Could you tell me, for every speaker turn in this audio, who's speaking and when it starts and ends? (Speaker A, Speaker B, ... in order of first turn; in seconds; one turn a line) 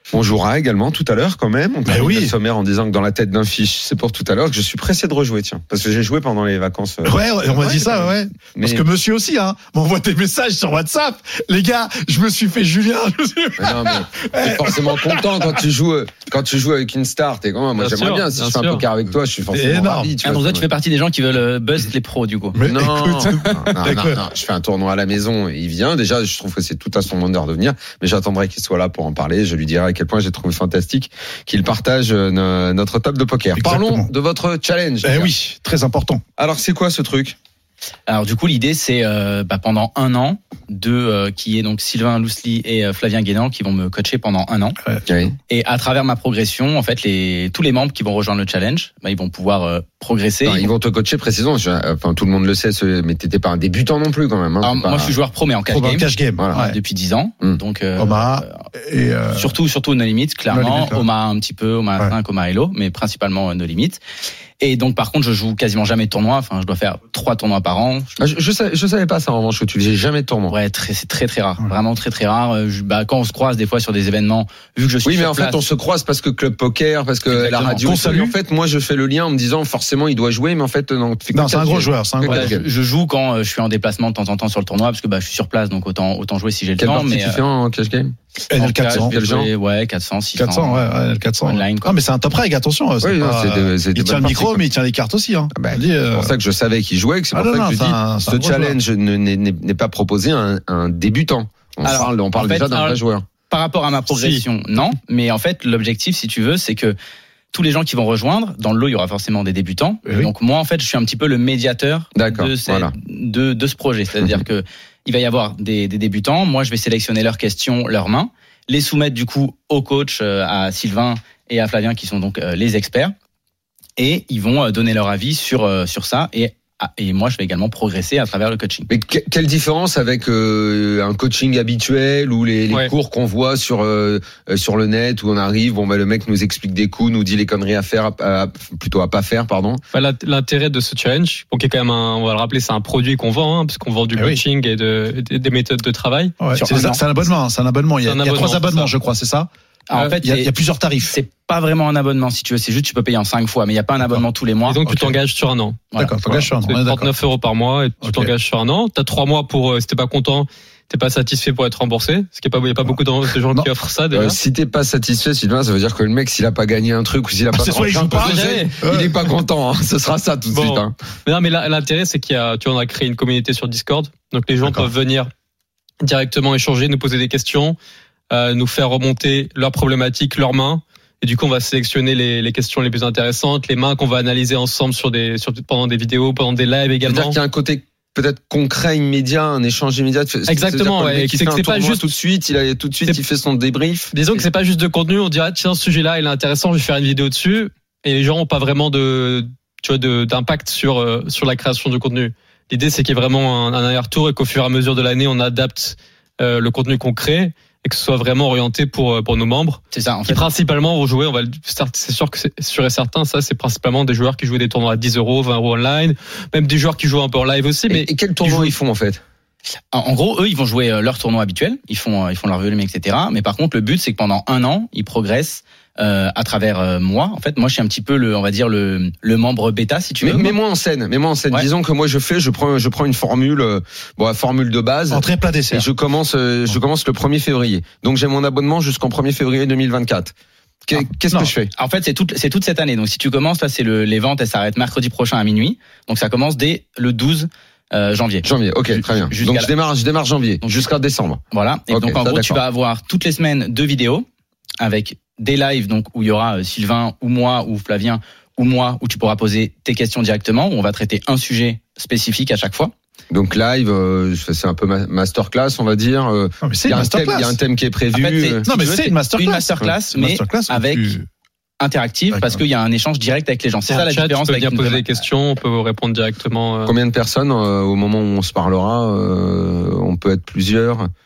Speaker A: 0.1-8.8
Speaker B: 1.9-2.4
Speaker B: 7.0-15.7
Speaker A: 13.6-20.7
Speaker C: 17.8-18.8
Speaker B: 19.5-20.1
Speaker D: 20.2-22.6
Speaker B: 22.5-24.2
Speaker A: 22.6-35.3
Speaker B: 33.5-34.1
Speaker B: 35.0-36.2
Speaker A: 36.4-37.4
Speaker D: 38.1-44.8
Speaker A: 45.1-45.4
Speaker D: 45.5-50.7
Speaker A: 50.4-55.1
Speaker D: 54.6-58.6
Speaker B: 55.7-56.8
Speaker A: 56.4-56.6
Speaker B: 58.0-59.5
Speaker D: 59.3-64.0
Speaker B: 60.5-61.0
Speaker D: 64.6-68.1
Speaker A: 68.2-70.5
Speaker D: 70.5-75.6
Speaker A: 75.0-82.7
Speaker D: 77.3-77.8
Speaker B: 77.7-78.4
Speaker B: 81.3-82.6
Speaker D: 82.2-87.4
Speaker A: 86.8-88.2
Speaker B: 88.5-89.2
Speaker D: 88.6-90.9
Speaker A: 88.9-89.5
Speaker B: 90.4-96.4
Speaker D: 91.4-92.0
Speaker A: 93.0-94.6
Speaker A: 95.5-103.2
Speaker B: 97.3-98.8
Speaker D: 101.8-103.0
Speaker D: 103.5-107.0
Speaker C: 104.1-104.4
Speaker D: 107.5-123.1
Speaker A: 112.2-112.9
Speaker D: 124.0-128.9
Speaker A: 128.9-139.8
Speaker C: 139.9-146.4
Speaker B: 144.2-144.4
Speaker B: 146.4-151.2
Speaker D: 146.6-147.1
Speaker C: 148.1-148.9
Speaker D: 149.9-150.5
Speaker D: 151.0-154.8
Speaker C: 154.7-164.4
Speaker B: 154.9-155.2
Speaker B: 156.0-157.1
Speaker B: 158.0-158.3
Speaker B: 162.8-163.7
Speaker A: 164.1-170.9
Speaker B: 167.5-169.3
Speaker C: 168.2-168.7
Speaker C: 170.5-175.3
Speaker B: 174.6-174.9
Speaker C: 176.0-177.8
Speaker C: 178.3-187.4
Speaker A: 187.1-194.1
Speaker C: 190.5-192.1
Speaker C: 194.1-218.8
Speaker D: 209.9-210.5
Speaker A: 217.9-219.2
Speaker D: 219.9-230.6
Speaker A: 230.2-240.3
Speaker B: 235.1-235.9
Speaker A: 240.9-241.7
Speaker B: 241.0-241.5
Speaker D: 241.8-248.5
Speaker A: 248.4-252.6
Speaker D: 249.0-249.7
Speaker D: 251.5-254.3
Speaker D: 254.8-262.9
Speaker A: 263.3-268.8
Speaker B: 266.6-267.6
Speaker D: 268.1-271.1
Speaker B: 268.6-271.3
Speaker D: 271.8-275.1
Speaker B: 272.3-272.6
Speaker C: 273.9-276.9
Speaker A: 276.9-281.1